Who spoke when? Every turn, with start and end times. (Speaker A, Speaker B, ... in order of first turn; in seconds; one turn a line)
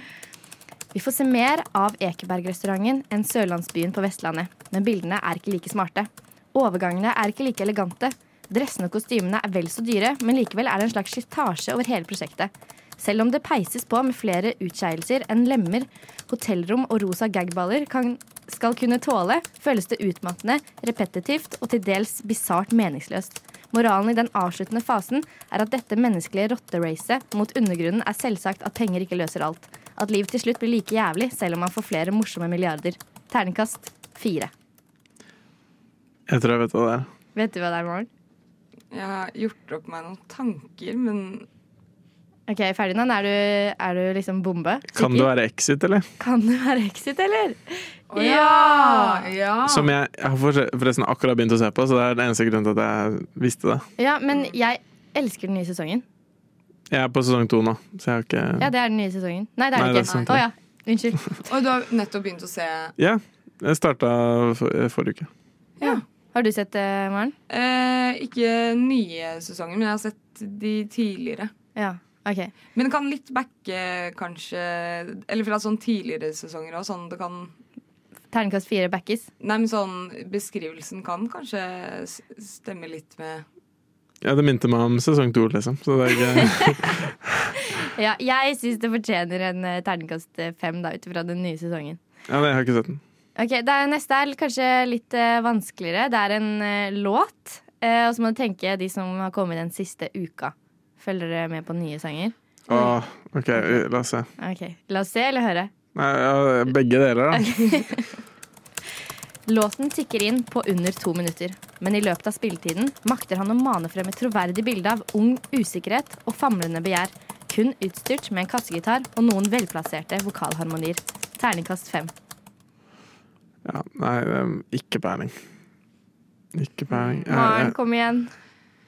Speaker A: 0.9-34.5
Speaker B: 36.3-37.1
Speaker A: 37.3-38.1
Speaker C: 38.9-41.5
Speaker A: 42.5-45.3
Speaker B: 45.0-46.1
Speaker A: 46.2-49.2
Speaker C: 48.1-49.9
Speaker B: 49.6-53.8
Speaker A: 54.0-56.0
Speaker B: 56.9-58.7
Speaker A: 58.6-61.2
Speaker B: 59.8-60.4
Speaker C: 61.5-62.9
Speaker B: 63.0-65.3
Speaker A: 65.8-67.3
Speaker C: 67.5-71.5
Speaker A: 71.8-72.5
Speaker C: 72.8-77.5
Speaker A: 78.3-79.3
Speaker C: 79.4-83.4
Speaker B: 84.2-87.1
Speaker A: 86.3-86.8
Speaker A: 87.7-92.0
Speaker B: 92.3-93.0
Speaker A: 93.4-102.9
Speaker B: 102.7-104.3
Speaker A: 103.5-103.8
Speaker A: 104.4-105.7
Speaker B: 105.9-107.5
Speaker A: 107.3-108.1
Speaker A: 109.5-122.1
Speaker B: 123.6-125.3
Speaker B: 126.5-127.7
Speaker C: 126.9-127.3
Speaker A: 127.3-128.3